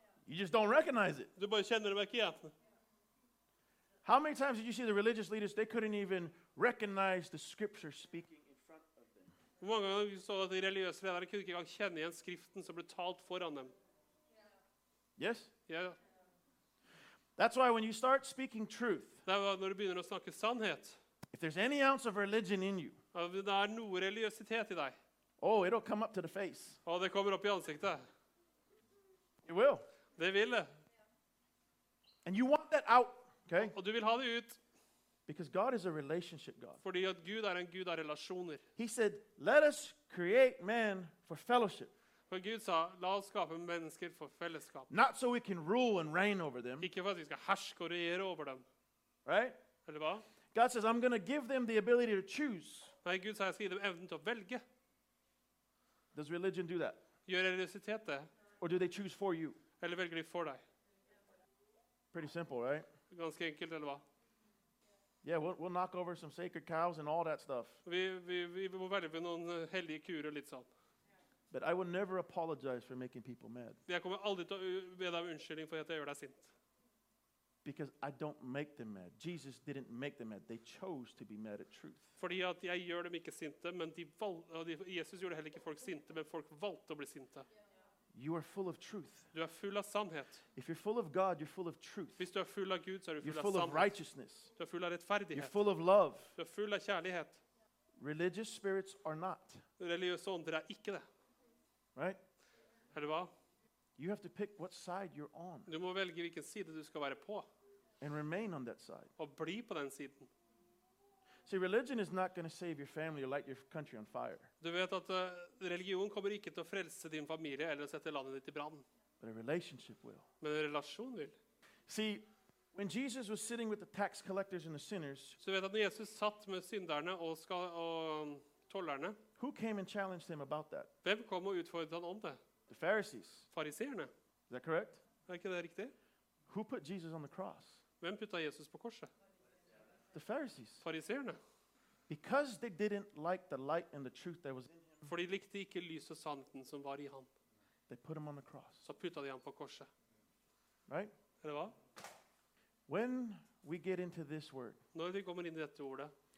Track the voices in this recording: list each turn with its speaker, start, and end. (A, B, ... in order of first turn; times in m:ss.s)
0:00.3-0:01.3 A
0:01.4-0:02.5 B
0:04.0-0:09.3 A
0:09.6-0:13.7 B
0:15.2-0:15.5 A
0:15.7-0:16.0 B
0:17.4-0:19.2 A
0:19.2-0:21.0 B
0:21.3-0:23.0 A
0:23.1-0:25.0 B
0:25.4-0:26.8 A
0:26.8-0:28.0 B
0:29.4-0:29.8 A
0:30.2-0:30.7 B
0:32.2-0:33.7 A
0:33.6-0:34.6 B
0:35.3-0:36.8 A
0:36.8-0:38.6 B
0:38.8-0:41.9 A
0:42.3-0:44.9 B
0:44.9-0:46.9 A
0:46.8-0:48.6 B
0:49.2-0:49.6 A
0:49.8-0:50.2 B
0:50.5-0:52.9 A
0:53.0-0:54.6 B
0:56.1-0:57.0 A
0:57.2-0:58.3 B
0:58.6-0:59.6 A
0:59.8-1:00.6 B
1:02.1-1:02.9 A
1:03.1-1:04.0 B
1:05.2-1:07.8 A
1:07.8-1:10.7 B
1:11.5-1:13.8 A
1:13.9-1:16.5 B
1:17.6-1:22.1 A
1:22.2-1:27.5 B
1:28.1-1:29.3 A
1:29.3-1:30.4 B
1:30.5-1:32.3 A
1:32.2-1:33.9 B
1:33.2-1:34.5 A
1:34.6-1:35.6 B
1:35.3-1:36.3 A
1:36.4-1:37.4 B
1:38.0-1:39.6 A
1:39.8-1:41.0 B
1:41.9-1:42.2 A
1:42.9-1:43.3 B
1:44.0-1:45.7 A
1:45.7-1:47.5 B
1:48.0-1:49.1 A
1:49.2-1:50.3 B
1:51.4-1:54.5 A
1:54.6-1:58.8 B
1:59.2-2:00.3 A
2:00.4-2:01.4 B
2:01.9-2:05.4 A
2:05.4-2:09.2 B
2:09.4-2:10.9 A
2:11.0-2:12.4 B
2:12.7-2:13.5 A
2:13.5-2:14.1 B
2:14.5-2:15.0 A
2:15.3-2:15.9 B
2:16.5-2:17.8 A
2:18.0-2:19.1 B
2:20.1-2:20.8 A
2:20.8-2:21.4 B
2:22.1-2:25.1 A
2:25.0-2:27.3 B
2:27.9-2:28.8 A
2:28.8-2:29.9 B
2:31.4-2:31.8 B
2:32.9-2:34.8 A
2:34.9-2:36.1 B